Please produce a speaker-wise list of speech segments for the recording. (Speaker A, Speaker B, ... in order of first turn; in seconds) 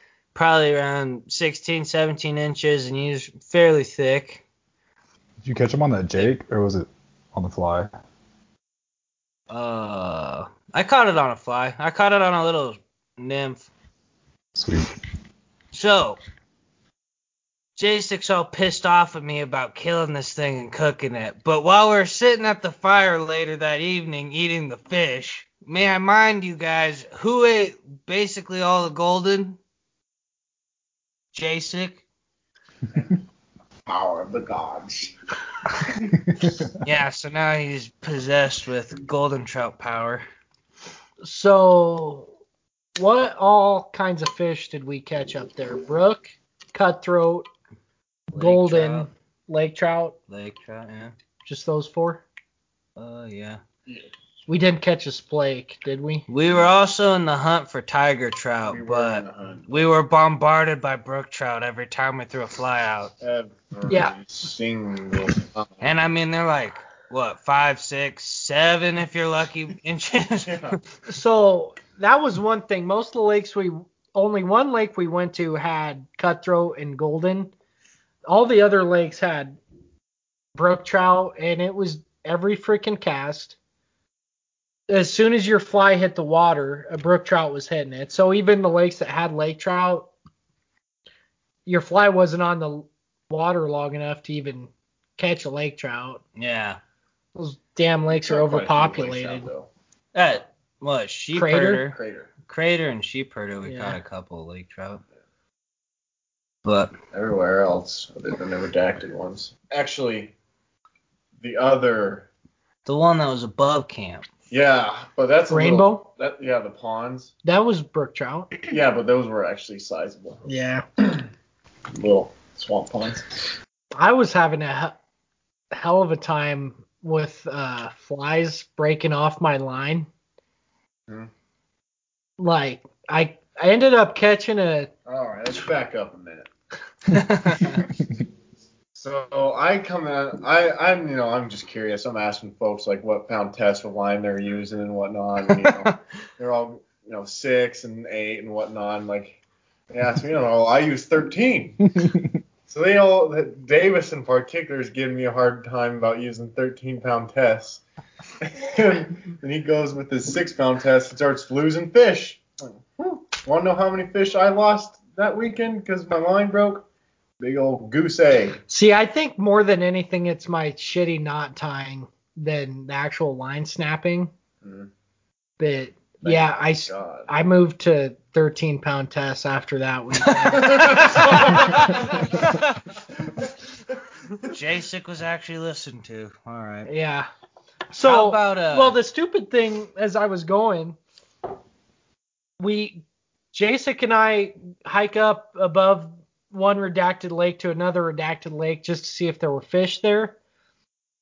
Speaker A: 0.3-4.4, 9.5-13.7, 15.7-16.2, 17.8-29.6, 31.3-32.0, 36.8-40.2, 48.3-49.1, 50.3-51.1, 53.0-53.6, 56.3-63.1, 65.8-70.8, 96.4-96.8, 100.1-105.0, 106.7-106.9, 112.8-114.2, 137.1-137.8, 180.4-182.8, 184.5-186.9, 188.0-189.0
Speaker B: 5.4-7.9, 14.6-14.9, 36.3-36.7
Speaker C: 32.9-33.2, 33.9-35.1, 35.9-36.1, 58.7-59.9, 63.2-65.8, 70.4-70.8, 98.1-99.7, 101.9-102.3, 107.1-110.3, 111.4-112.3, 114.5-117.3, 118.7-120.4, 122.0-123.3, 135.1-136.5, 138.9-149.4, 149.9-151.9, 152.7-157.8, 158.4-166.8, 167.4-168.6, 174.6-174.9, 176.2-177.3, 180.6-182.3
Speaker D: 41.2-42.3, 43.0-47.5, 48.3-50.1, 51.5-52.2, 54.5-56.3, 63.9-64.2, 71.1-77.5, 78.3-79.6, 80.5-83.6, 84.9-90.1, 91.7-96.2, 97.3-99.5, 101.3-101.9, 103.7-104.0, 115.5-116.1, 117.4-118.5, 120.5-120.8, 124.0-125.0, 125.7-130.1, 132.4-134.9, 168.7-174.3, 175.6-181.9, 186.9-187.3, 187.9-191.0, 192.6-200.4